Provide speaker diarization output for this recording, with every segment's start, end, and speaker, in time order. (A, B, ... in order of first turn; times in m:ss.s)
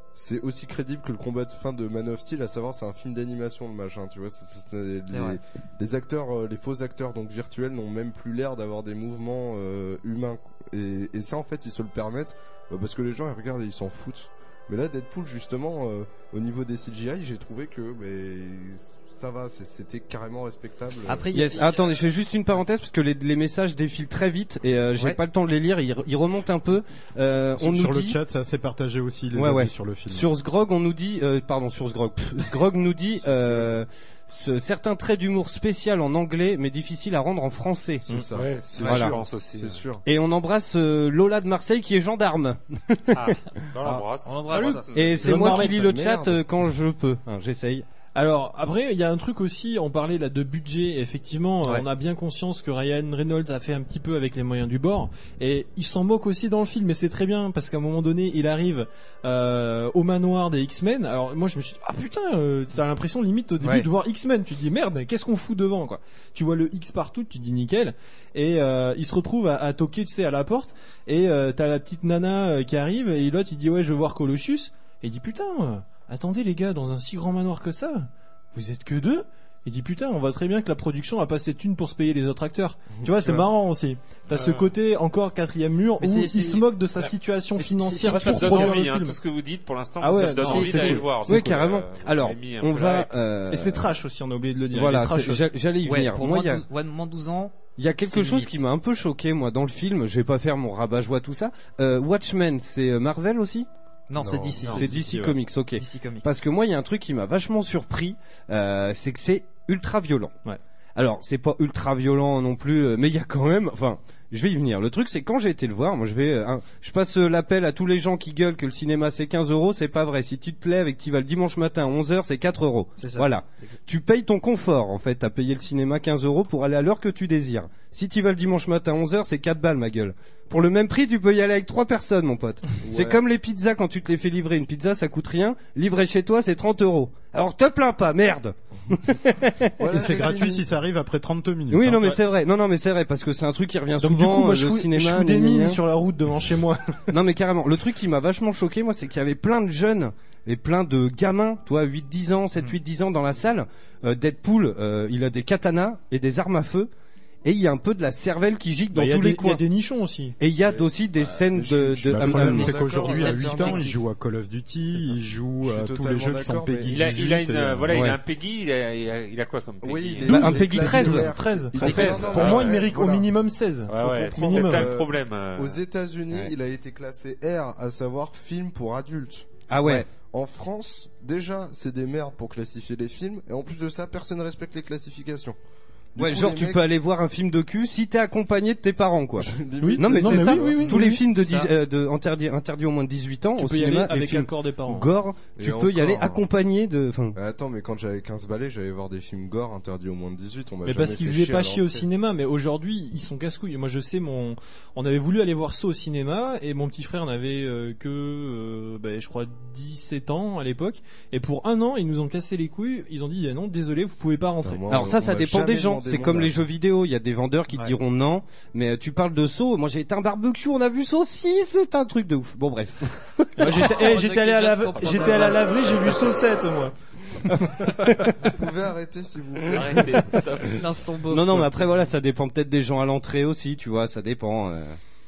0:00.1-0:21.3 A
0:05.1-0:05.4 B
0:21.0-0:22.0 B
0:21.3-0:28.2 C
0:27.6-0:30.3 D
0:29.3-0:38.2 C
0:33.2-0:33.8 A
0:38.0-0:40.0 A
0:38.3-0:39.8 E
0:38.8-0:39.2 C
0:40.0-0:43.4 C
0:43.1-0:45.3 E
0:44.2-0:44.9 B
0:44.6-0:45.9 F
0:44.9-0:47.8 C
0:45.3-0:46.4 A
0:48.1-1:29.2 F
1:23.0-1:23.4 A
1:24.3-1:24.7 E
1:26.0-1:26.6 B
1:27.6-1:28.8 B
1:28.0-1:33.1 E
1:30.0-1:31.4 F
1:30.3-1:31.1 B
1:31.2-1:33.9 C
1:33.5-1:35.5 F
1:34.7-1:36.6 C
1:35.8-1:38.6 B
1:37.8-1:43.7 C
1:44.1-1:45.1 B
1:44.2-1:44.6 A
1:44.6-1:50.3 C
1:44.8-1:45.4 F
1:45.8-1:46.3 B
1:50.9-2:19.7 C
2:03.0-2:03.8 B
2:12.8-2:13.2 A
2:19.8-2:20.7 A
2:19.8-2:22.1 D
2:21.7-2:25.8 C
2:24.0-2:27.1 F
2:27.1-2:36.9 C
2:37.4-2:39.6 C
2:38.9-2:40.4 F
2:40.4-2:42.8 C
2:40.6-2:43.9 A
2:42.1-2:48.0 D
2:42.7-2:44.0 B
2:44.9-2:47.2 A
2:46.8-2:50.5 E
2:47.9-2:48.2 C
2:49.8-2:53.3 A
2:50.2-2:52.3 C
2:50.2-2:54.9 F
2:51.7-2:52.8 E
2:53.9-2:55.8 E
2:54.3-2:59.5 A
2:59.7-3:00.1 C
3:00.1-3:05.6 A
3:06.1-3:06.8 A
3:06.2-3:17.4 C
3:09.4-3:10.9 A
3:09.8-3:11.2 F
3:10.8-3:11.7 B
3:13.6-3:15.1 F
3:15.6-3:16.4 A
3:17.3-3:22.0 A
3:20.8-3:34.9 F
3:34.6-3:36.6 A
3:34.9-3:44.0 C
3:43.6-3:46.9 F
3:43.6-3:46.4 B
3:47.5-3:48.2 F
3:47.5-3:48.3 C
3:48.4-3:50.4 A
3:49.7-3:50.9 E
3:49.7-3:50.0 C
3:50.7-3:52.0 B
3:51.3-3:55.0 C